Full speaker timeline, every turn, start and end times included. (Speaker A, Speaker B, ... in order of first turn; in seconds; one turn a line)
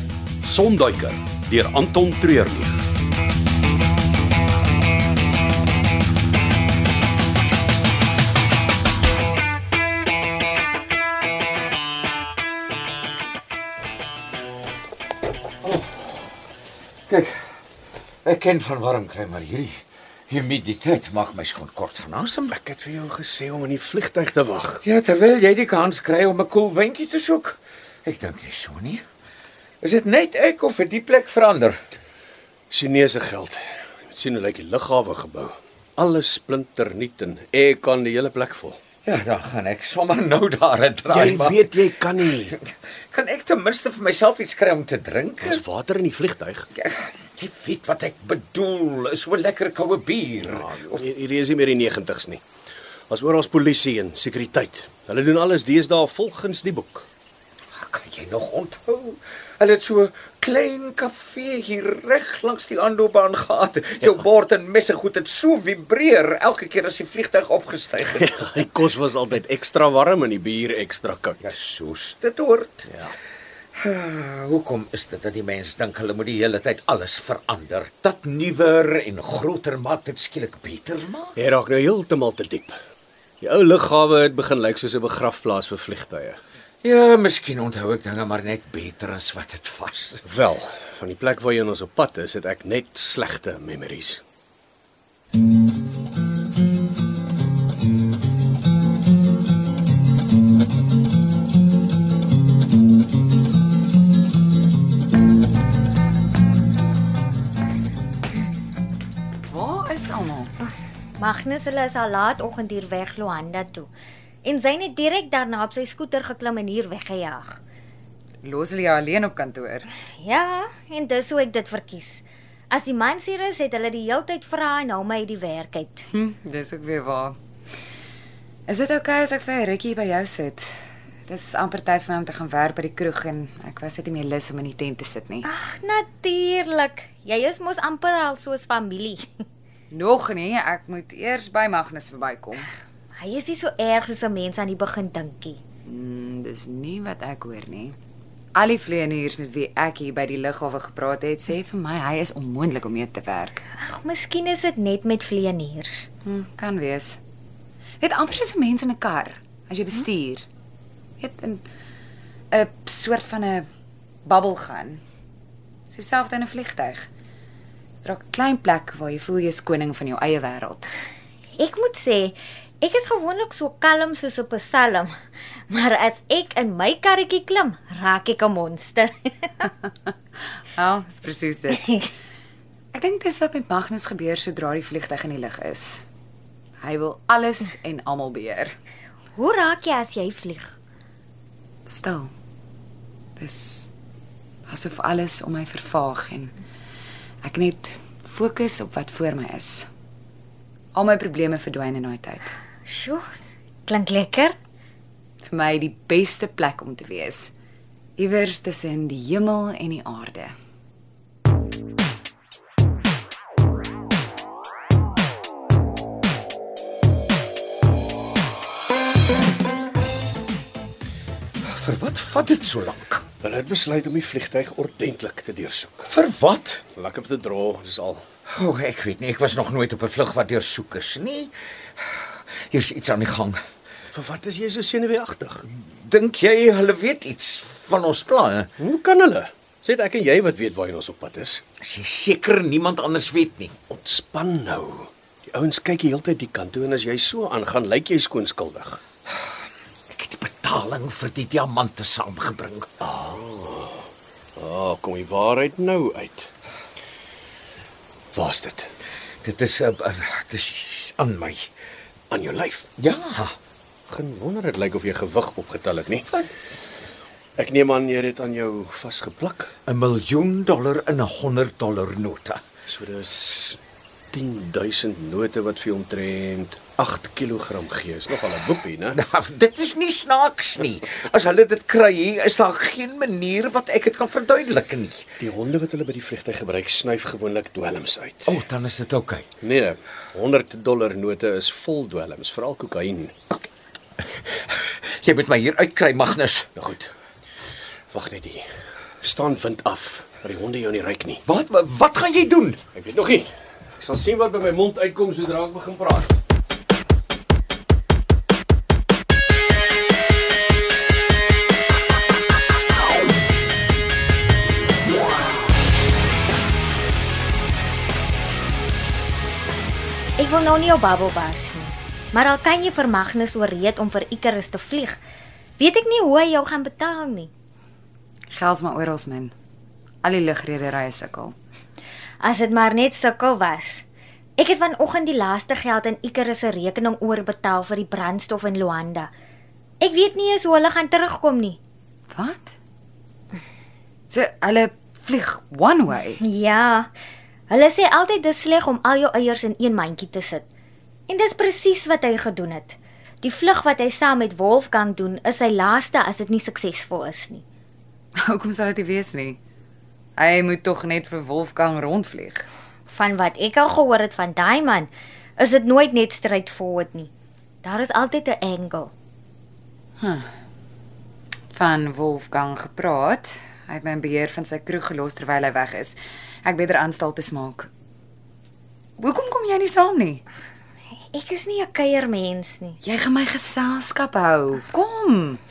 Speaker A: 0.4-2.8
Speaker B: 15.6-16.1
Speaker B: 17.1-17.4
Speaker B: 18.2-22.6
Speaker C: 22.5-24.8
Speaker B: 24.8-29.0
Speaker B: 29.8-31.8
Speaker C: 32.7-38.8
Speaker B: 39.0-45.6
Speaker C: 41.1-42.6
Speaker C: 45.4-46.7
Speaker B: 46.8-51.0
Speaker C: 50.4-52.4
Speaker C: 53.1-57.1
Speaker B: 57.8-68.4
Speaker C: 68.2-71.5
Speaker B: 71.4-72.9
Speaker B: 73.8-81.4
Speaker C: 81.4-82.8
Speaker C: 83.4-86.4
Speaker B: 86.8-90.3
Speaker C: 90.3-94.2
Speaker D: 109.5-110.5
Speaker E: 111.2-113.9
Speaker E: 114.4-117.6
Speaker D: 118.4-119.9
Speaker E: 120.2-126.0
Speaker D: 126.1-127.4
Speaker D: 128.7-130.7
Speaker D: 131.3-135.5
Speaker E: 135.5-139.3
Speaker D: 139.9-142.7
Speaker E: 143.2-145.6
Speaker D: 145.8-148.0
Speaker D: 148.6-153.7
Speaker E: 153.8-156.1
Speaker D: 156.2-157.2
Speaker D: 158.0-160.5
Speaker D: 161.2-161.6
Speaker D: 162.5-163.7
Speaker D: 164.2-165.0
Speaker D: 165.9-167.1
Speaker D: 168.0-170.9
Speaker E: 171.6-175.1
Speaker E: 175.7-179.5
Speaker D: 179.6-182.1
Speaker D: 182.9-186.1
Speaker D: 186.8-188.8
Speaker E: 189.4-190.7
Speaker D: 191.9-192.3
Speaker D: 193.4-193.9
Speaker D: 194.7-196.6
Speaker D: 197.4-199.9
Speaker D: 200.9-202.6
Speaker E: 202.9-203.2
Speaker E: 203.9-204.6
Speaker D: 205.4-207.5
Speaker D: 208.2-210.6
Speaker B: 221.6-223.2
Speaker C: 223.4-226.1
Speaker B: 226.1-226.8
Speaker C: 226.9-228.2
Speaker B: 228.5-233.6
Speaker C: 234.1-235.7
Speaker B: 235.9-238.7
Speaker C: 238.8-241.6
Speaker B: 241.8-243.8
Speaker C: 243.9-249.0
Speaker B: 250.1-252.9
Speaker C: 253.0-256.5
Speaker C: 258.3-258.9
Speaker B: 259.4-261.7
Speaker C: 262.3-262.9
Speaker B: 263.0-263.5
Speaker C: 264.1-266.3
Speaker C: 267.6-269.7
Speaker B: 269.9-272.6
Speaker C: 272.9-273.8
Speaker C: 274.3-279.2
Speaker B: 279.1-285.2
Speaker C: 285.4-288.6
Speaker B: 288.4-289.5
Speaker C: 289.6-293.3
Speaker B: 294.4-296.7
Speaker C: 296.8-297.1
Speaker C: 298.1-298.7
Speaker C: 299.2-301.4
Speaker B: 301.5-302.8
Speaker C: 302.9-306.3
Speaker E: 320.4-325.2
Speaker E: 325.8-327.5
Speaker D: 328.5-329.5
Speaker D: 330.2-331.6
Speaker E: 332.4-334.1
Speaker E: 334.6-339.3
Speaker E: 340.0-341.8
Speaker D: 342.3-342.8
Speaker D: 344.3-346.4
Speaker E: 346.4-347.1
Speaker E: 347.7-350.6
Speaker E: 351.3-357.6
Speaker D: 358.4-359.6
Speaker D: 360.4-362.7
Speaker E: 363.1-367.3
Speaker E: 367.8-369.1
Speaker D: 370.2-370.5
Speaker D: 371.7-377.9
Speaker D: 379.2-380.4
Speaker E: 381.3-383.0
Speaker D: 383.0-385.6